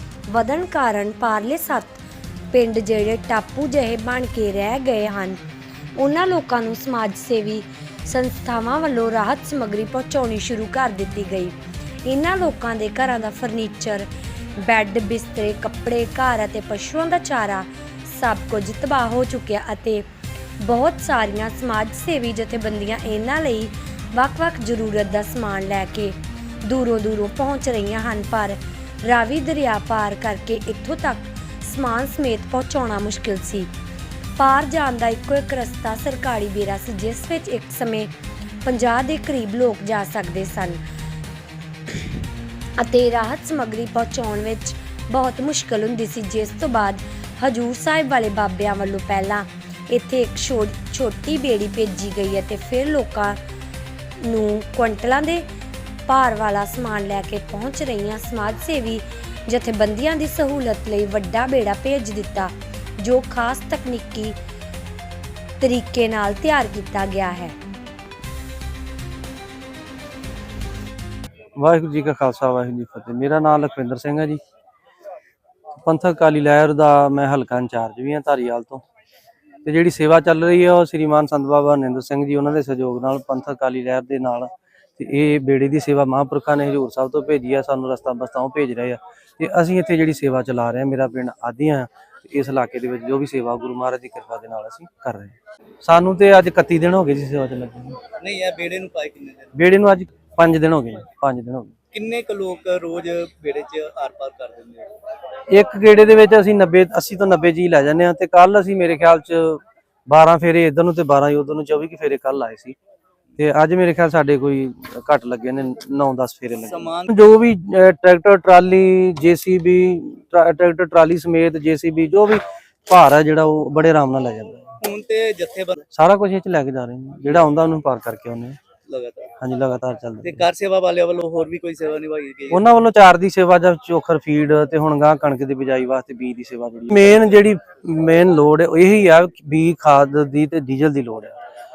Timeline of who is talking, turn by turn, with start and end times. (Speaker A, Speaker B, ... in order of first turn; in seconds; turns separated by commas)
Speaker A: 0.3-2.0, Speaker A: 2.5-5.4, Speaker A: 6.0-20.1, Speaker A: 20.6-33.7, Speaker A: 34.4-38.1, Speaker A: 38.6-40.8, Speaker A: 42.8-53.4, Speaker A: 54.2-55.5, Speaker A: 56.1-64.4, Speaker A: 65.6-67.6, Speaker B: 71.6-74.4, Speaker B: 75.8-78.8, Speaker B: 79.7-98.0, Speaker C: 98.2-99.5, Speaker B: 99.5-101.7, Speaker C: 101.9-104.9, Speaker B: 105.5-112.8, Speaker B: 113.4-124.8, Speaker C: 116.6-117.1, Speaker C: 124.8-125.8, Speaker B: 125.9-128.6, Speaker C: 128.9-129.3, Speaker B: 129.4-130.4, Speaker C: 130.2-132.7, Speaker B: 132.5-141.4